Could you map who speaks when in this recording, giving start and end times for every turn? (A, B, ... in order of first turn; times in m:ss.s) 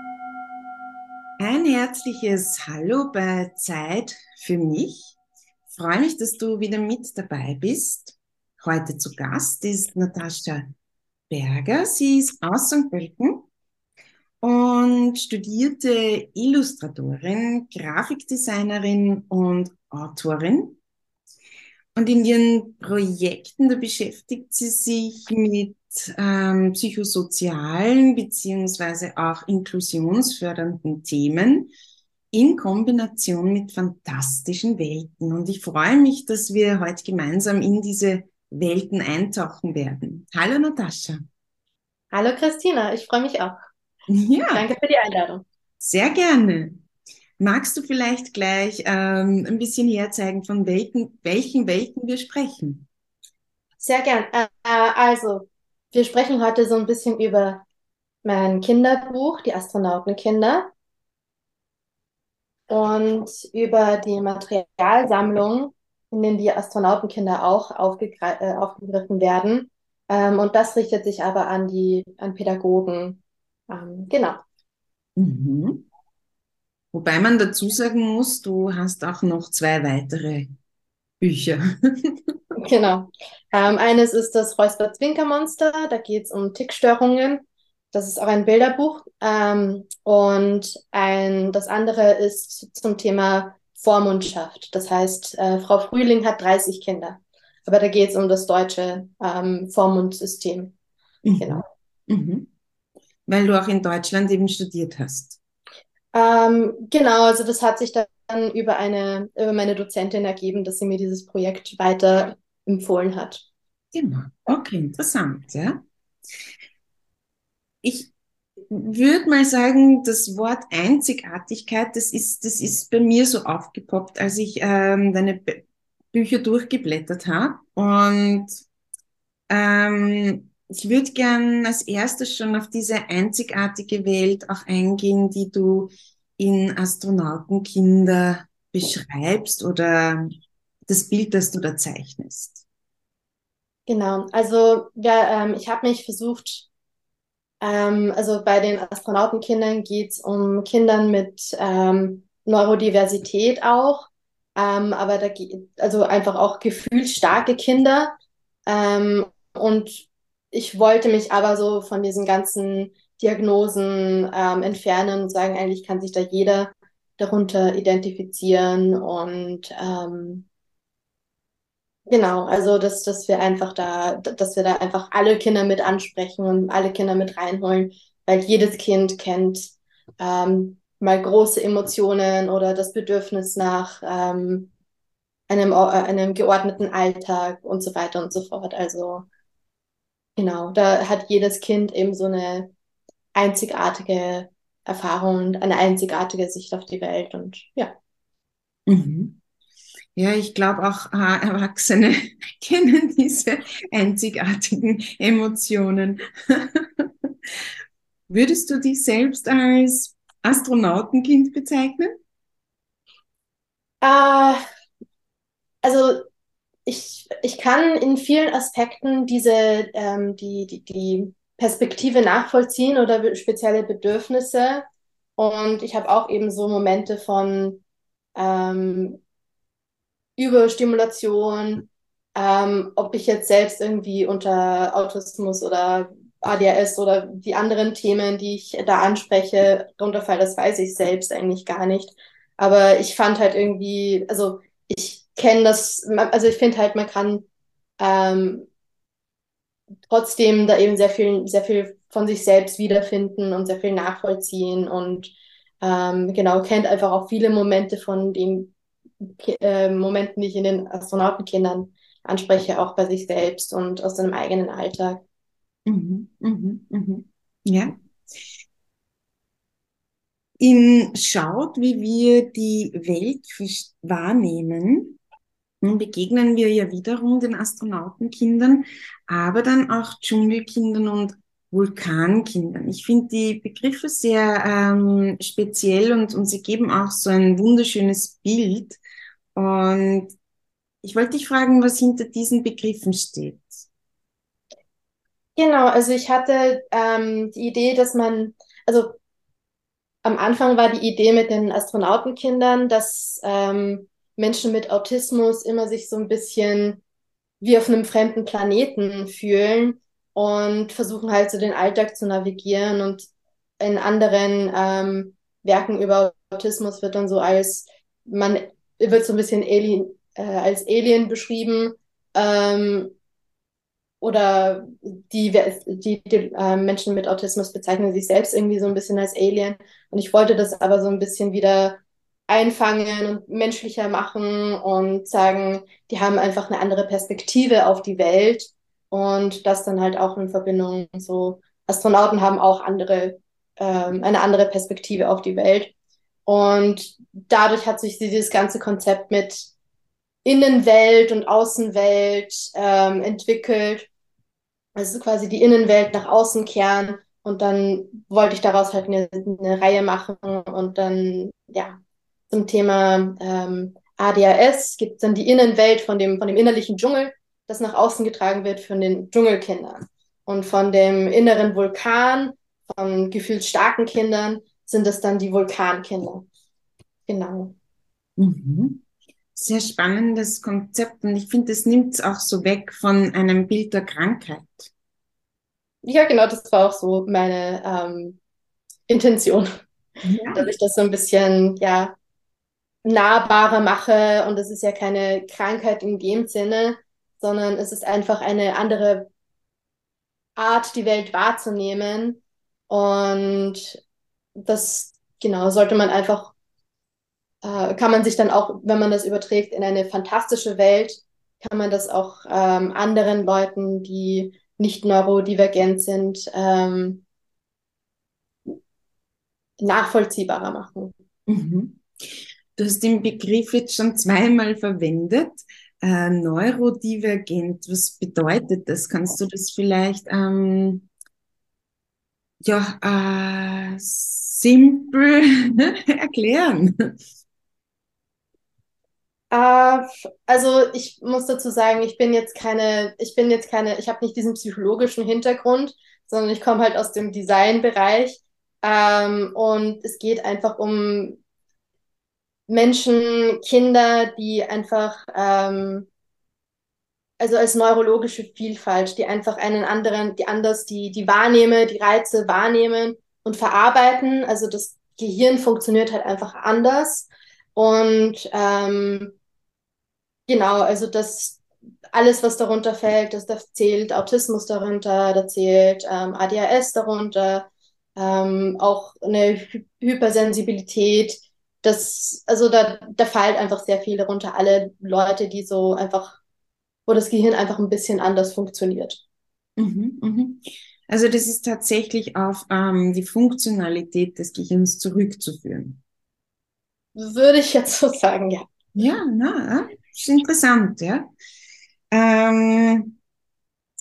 0:01.4-0:05.1 A
0:05.7-0:10.7 A
0:11.3-0:13.5 A
0:14.4-0:20.8 A
0:21.9-0:31.7 A
0:32.3-0:41.2 A
0:42.1-0:43.6 B
0:44.1-0:44.6 A
0:44.5-0:45.4 B
0:45.8-0:46.8 A
0:47.4-0:52.9 A
0:53.8-0:57.6 B
0:58.2-1:00.7 B
1:02.7-1:14.4 B
1:15.2-1:15.8 A
1:16.9-1:20.5 A
1:21.2-1:22.2 A
1:22.6-1:40.7 B
1:41.2-1:42.5 A
1:41.4-1:41.6 B
1:43.3-1:45.4 A
1:46.1-1:53.4 B
1:53.9-1:55.8 A
1:57.8-1:58.1 A
1:58.7-2:08.6 A
2:09.5-2:20.4 A
2:20.9-2:22.6 A
2:23.9-2:26.7 B
2:27.6-2:38.1 B
2:38.7-2:50.4 B
2:52.1-3:04.7 B
3:05.5-3:09.2 B
3:10.4-3:12.7 B
3:13.3-3:17.9 B
3:18.9-3:19.4 A
3:20.2-3:27.5 A
3:28.3-3:32.2 A
3:34.0-3:34.6 B
3:35.8-3:36.3 B
3:36.8-3:44.8 B
3:45.4-3:47.8 B
3:48.4-3:49.2 B
3:50.4-4:07.4 B
4:08.0-4:08.7 B
4:10.1-4:25.2 B
4:25.8-4:28.0 A
4:30.6-4:35.2 A
4:35.8-4:49.0 A
4:49.5-4:50.3 A
4:51.0-4:53.8 A
4:55.6-4:59.2 B
5:00.2-5:07.0 B
5:07.6-5:13.3 B
5:13.8-5:23.1 B
5:24.2-5:45.9 B
5:46.4-5:49.7 B
5:50.4-5:54.1 B
5:55.0-6:02.0 B
6:02.5-6:16.4 B
6:17.3-6:17.7 B
6:18.4-6:19.0 A
6:19.5-6:24.9 A
6:26.0-6:28.4 B
6:29.1-6:29.8 B
6:30.2-6:30.6 A
6:30.5-6:32.2 B
6:33.0-6:39.3 B
6:40.6-6:44.0 B
6:44.6-6:46.5 B
6:47.6-6:57.2 B
6:59.8-7:01.1 B
7:01.5-7:11.1 A
7:12.6-7:17.2 A
7:19.5-7:31.4 B
7:32.7-7:36.1 B
7:37.4-7:49.3 B
7:50.5-7:51.6 B
7:52.1-8:06.4 B
8:07.1-8:09.2 B
8:09.8-8:16.0 A
8:17.1-8:18.7 B
8:18.9-8:21.3 A
8:22.1-8:23.2 A